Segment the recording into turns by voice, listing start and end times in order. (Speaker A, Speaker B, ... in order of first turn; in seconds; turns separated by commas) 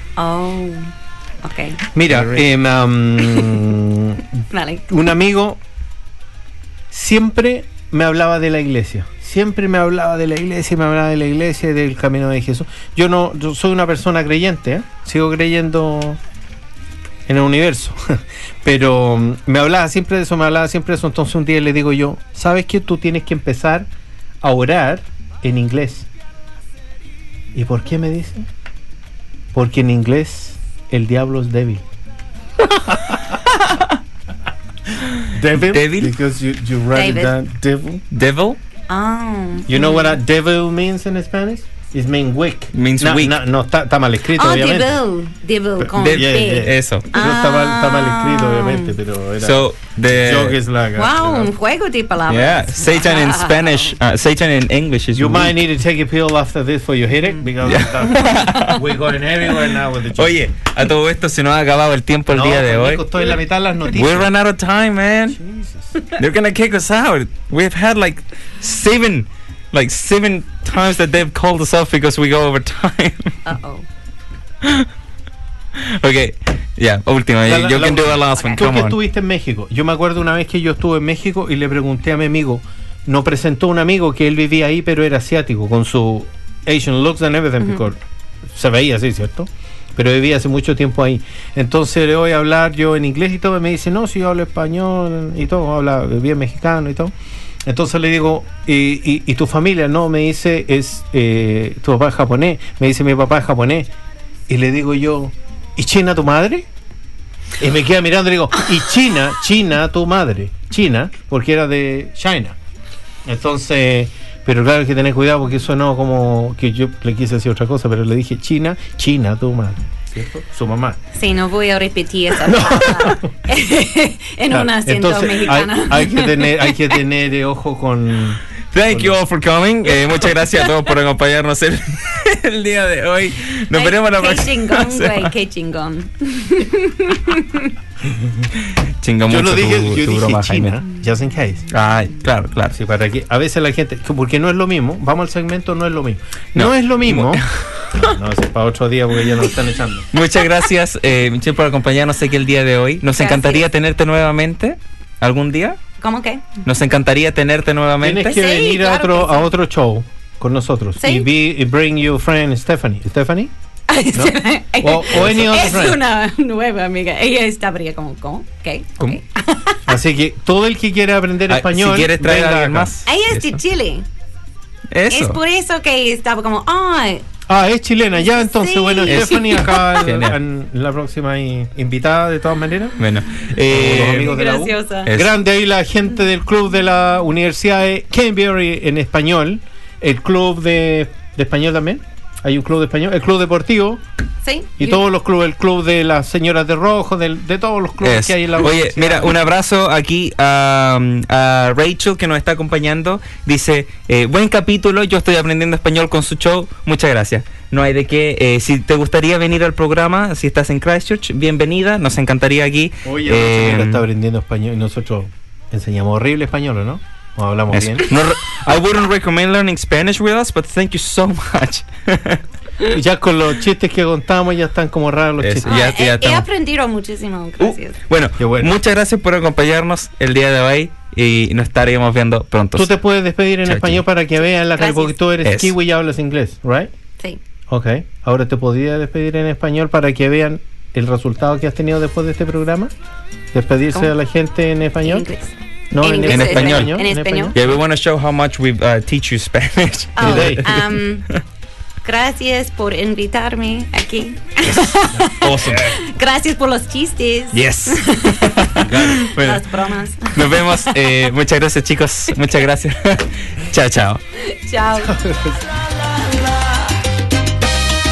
Speaker A: 0.2-0.9, Speaker A: 1.4-1.8, Speaker B: 1.9-4.2, Speaker C: 2.1-2.4, Speaker A: 3.2-3.6, Speaker A: 4.5-4.9, Speaker B: 4.9-5.6, Speaker B: 6.9-16.2, Speaker B: 17.3-23.9, Speaker B: 24.4-26.1, Speaker B: 27.5-28.5, Speaker B: 29.5-31.8, Speaker B: 32.7-33.2, Speaker C: 33.6-33.9, Speaker B: 35.3-38.0, Speaker C: 35.7-36.1, Speaker A: 36.9-37.3, Speaker C: 38.1-38.6, Speaker A: 38.9-40.2, Speaker B: 39.7-45.0, Speaker C: 42.7-43.4, Speaker A: 44.3-49.0, Speaker B: 45.8-51.5, Speaker C: 46.0-47.1, Speaker C: 49.4-50.6, Speaker A: 51.0-54.0, Speaker C: 52.3-55.6, Speaker B: 55.2-60.4, Speaker C: 57.6-58.9, Speaker C: 60.1-63.0, Speaker B: 62.3-64.3, Speaker C: 63.9-65.4, Speaker B: 65.3-66.0, Speaker C: 66.2-73.4, Speaker A: 73.5-73.8, Speaker C: 74.6-74.9, Speaker C: 75.8-79.0, Speaker B: 77.5-97.1, Speaker A: 78.3-78.6, Speaker B: 97.7-103.9, Speaker B: 104.5-106.7, Speaker B: 107.6-112.6, Speaker B: 113.2-121.0, Speaker A: 121.1-126.8, Speaker B: 122.4-123.3, Speaker B: 124.5-129.2, Speaker C: 128.7-135.3, Speaker A: 133.7-137.7, Speaker C: 139.0-140.8, Speaker B: 139.3-141.7, Speaker C: 141.7-142.8, Speaker B: 142.7-147.4, Speaker C: 146.6-148.0, Speaker B: 147.9-150.1, Speaker C: 150.1-155.8, Speaker A: 153.2-153.7, Speaker A: 156.0-156.6, Speaker C: 156.6-158.4, Speaker B: 158.0-163.5, Speaker A: 158.2-159.5, Speaker A: 161.0-161.3, Speaker A: 163.9-169.8, Speaker B: 164.1-166.0, Speaker B: 169.9-172.9, Speaker C: 171.5-173.6, Speaker A: 173.1-174.1, Speaker C: 174.9-175.4, Speaker A: 175.1-177.2, Speaker B: 177.5-183.0, Speaker A: 178.3-179.8, Speaker C: 179.1-180.4, Speaker C: 183.0-184.4, Speaker B: 183.7-194.0, Speaker A: 184.1-185.1, Speaker C: 185.1-185.3, Speaker A: 194.4-195.0, Speaker B: 194.8-199.4, Speaker C: 198.0-214.0, Speaker B: 213.1-218.1, Speaker C: 217.7-222.4, Speaker B: 222.8-225.8, Speaker C: 225.4-226.5, Speaker A: 225.6-228.0, Speaker C: 227.6-232.9, Speaker B: 228.4-228.7, Speaker B: 232.8-236.9, Speaker C: 233.7-234.0, Speaker A: 234.8-235.2, Speaker C: 235.4-235.7, Speaker B: 237.7-242.9, Speaker B: 243.5-245.3, Speaker A: 245.0-247.6, Speaker B: 245.9-247.8, Speaker C: 246.3-247.0, Speaker C: 247.5-251.4, Speaker A: 250.2-251.3, Speaker B: 250.2-250.7, Speaker A: 252.0-261.3, Speaker C: 254.7-256.0, Speaker B: 255.2-255.8, Speaker C: 257.5-264.2, Speaker B: 258.8-259.3, Speaker A: 264.4-265.2, Speaker B: 265.0-265.6